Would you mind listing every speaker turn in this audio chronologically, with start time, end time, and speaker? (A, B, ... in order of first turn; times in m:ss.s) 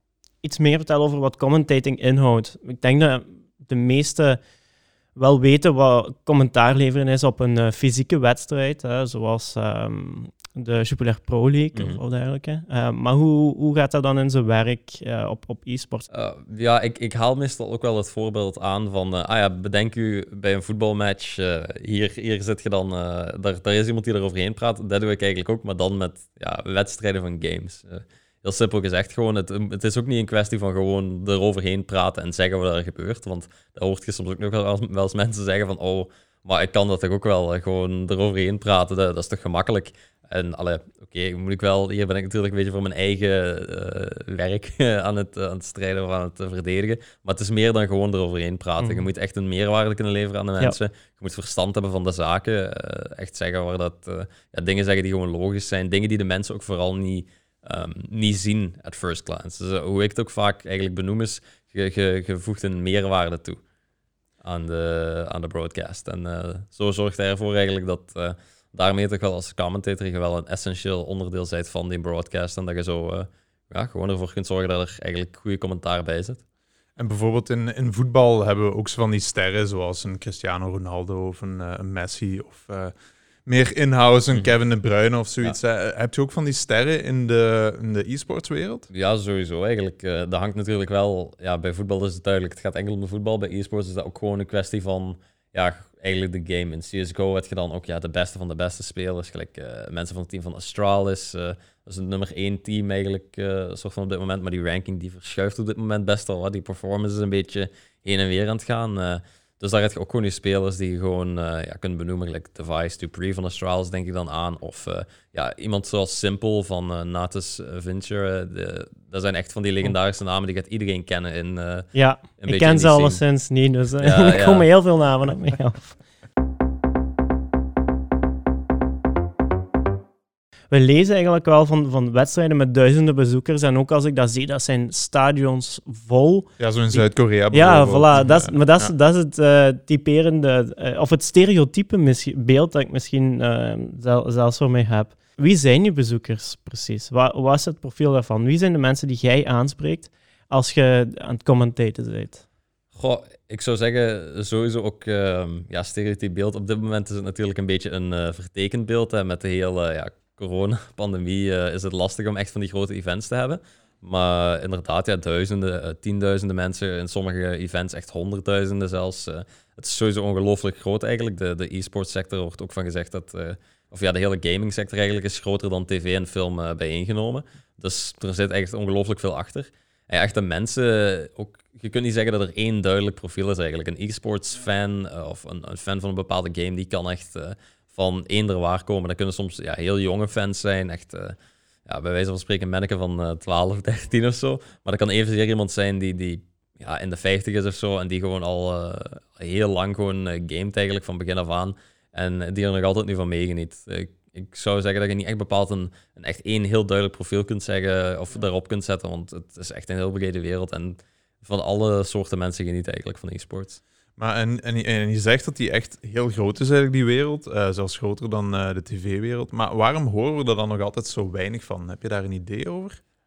0:00.4-0:04.4 A
0:05.1-0:16.1 A
0:11.7-0:12.0 B
0:16.1-1:03.6 B
0:48.8-0:49.1 A
1:04.4-1:16.4 B
1:17.0-1:22.9 C
1:23.4-1:28.9 C
1:28.9-2:03.2 B
2:01.9-2:06.0 A
2:04.0-2:04.7 B
2:10.7-2:32.4 A
2:16.6-2:18.6 C
2:32.9-3:11.3 B
3:11.8-3:33.8 B
3:34.2-3:43.0 C